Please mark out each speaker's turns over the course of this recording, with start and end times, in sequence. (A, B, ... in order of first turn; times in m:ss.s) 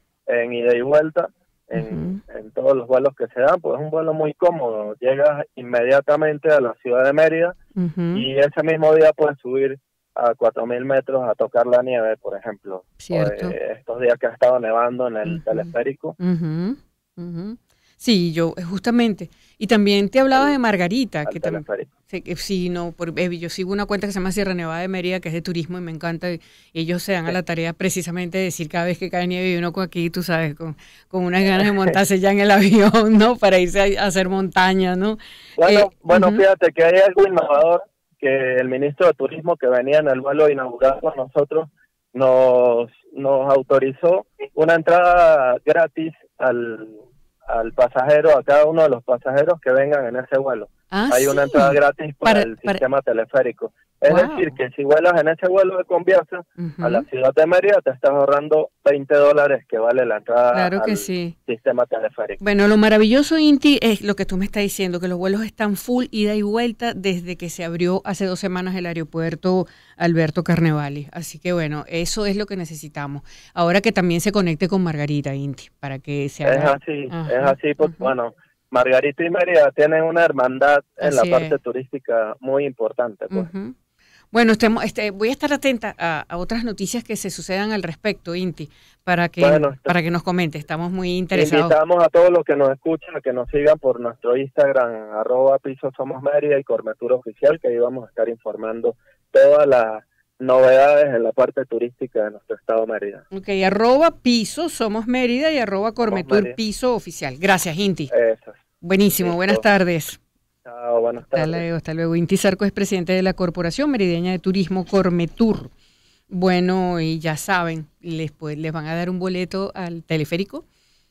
0:00.3-0:07.6 A
0:01.7-0:02.2 B
0:07.8-0:08.2 B
0:08.1-0:16.2 A
0:13.0-0:13.5 B
0:15.2-0:36.4 B
0:21.3-0:21.9 A
0:31.5-0:31.9 A
0:35.6-1:02.4 A
0:50.9-0:52.8 B
0:54.1-0:54.5 B
0:56.6-0:57.0 B
1:00.5-1:01.3 B
1:02.4-1:18.1 B
1:16.4-1:23.5 A
1:21.0-1:21.5 B
1:23.3-1:23.7 B
1:24.3-1:31.7 B
1:29.4-1:29.9 A
1:31.3-1:43.2 A
1:43.3-1:48.1 B
1:46.0-1:46.6 A
1:48.1-1:48.6 A
1:48.8-1:50.2 B
1:49.2-1:49.6 A
1:50.6-1:51.6 A
1:51.3-1:55.7 B
1:56.3-2:00.6 B